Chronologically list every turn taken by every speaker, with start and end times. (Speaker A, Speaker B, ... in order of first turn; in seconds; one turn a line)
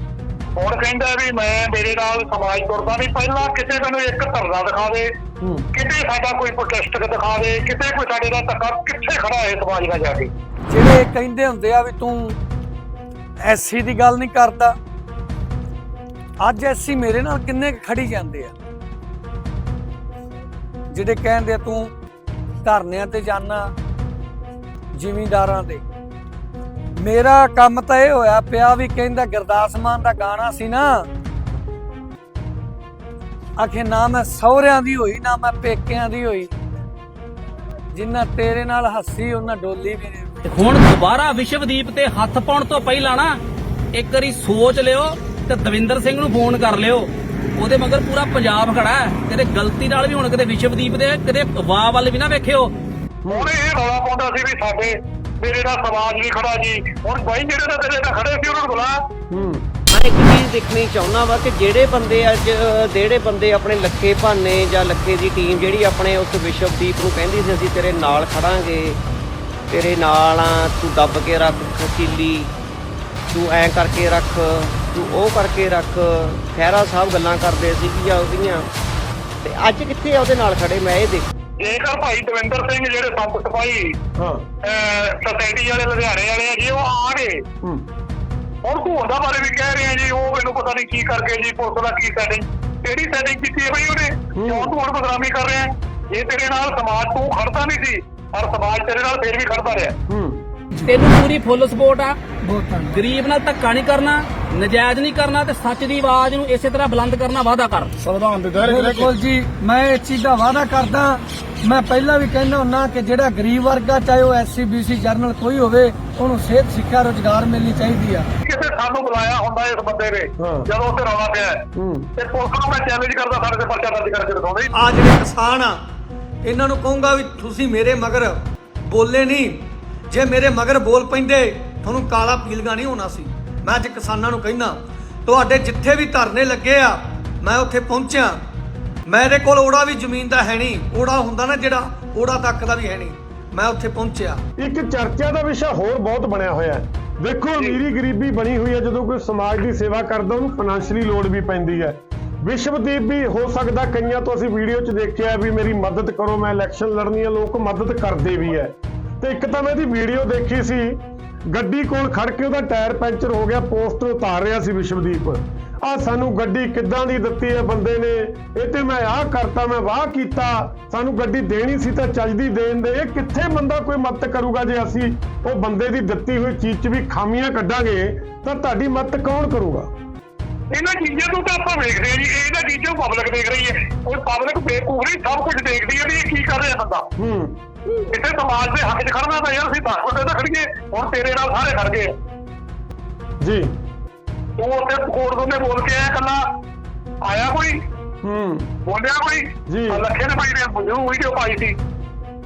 Speaker A: 0.6-5.1
Speaker B: 5.4-5.7
Speaker A: 5.7-10.3
Speaker C: 10.7-12.4
Speaker C: 13.4-14.7
Speaker C: 16.4-18.5
Speaker C: 20.9-21.9
Speaker C: 22.6-23.7
Speaker C: 24.9-25.8
Speaker C: 26.9-31.1
Speaker C: 33.6-36.5
Speaker C: 37.9-40.6
Speaker D: 40.5-43.4
Speaker D: 43.9-52.7
Speaker B: 53.2-53.5
Speaker A: 53.3-59.0
Speaker B: 59.3-59.7
Speaker E: 59.9-69.0
Speaker E: 69.7-72.5
Speaker E: 73.3-78.7
Speaker E: 79.4-81.3
Speaker A: 81.6-84.0
Speaker B: 84.2-84.5
Speaker A: 84.6-87.4
Speaker A: 88.6-99.9
Speaker B: 94.3-94.7
Speaker B: 100.1-100.4
Speaker D: 100.8-102.2
Speaker C: 102.4-103.0
Speaker D: 102.9-108.1
Speaker C: 108.6-118.3
Speaker A: 118.4-121.6
Speaker B: 120.4-120.7
Speaker B: 121.7-122.1
Speaker A: 122.2-124.8
Speaker C: 124.7-125.8
Speaker C: 126.4-138.4
Speaker C: 139.1-144.4
Speaker B: 144.6-179.9
Speaker A: 180.7-187.1
Speaker B: 187.2-187.6
Speaker A: 187.9-192.1
Speaker B: 193.4-193.7
Speaker A: 194.6-196.4
Speaker A: 197.2-197.8
Speaker B: 198.2-198.7
Speaker A: 198.8-201.8
Speaker B: 199.7-200.0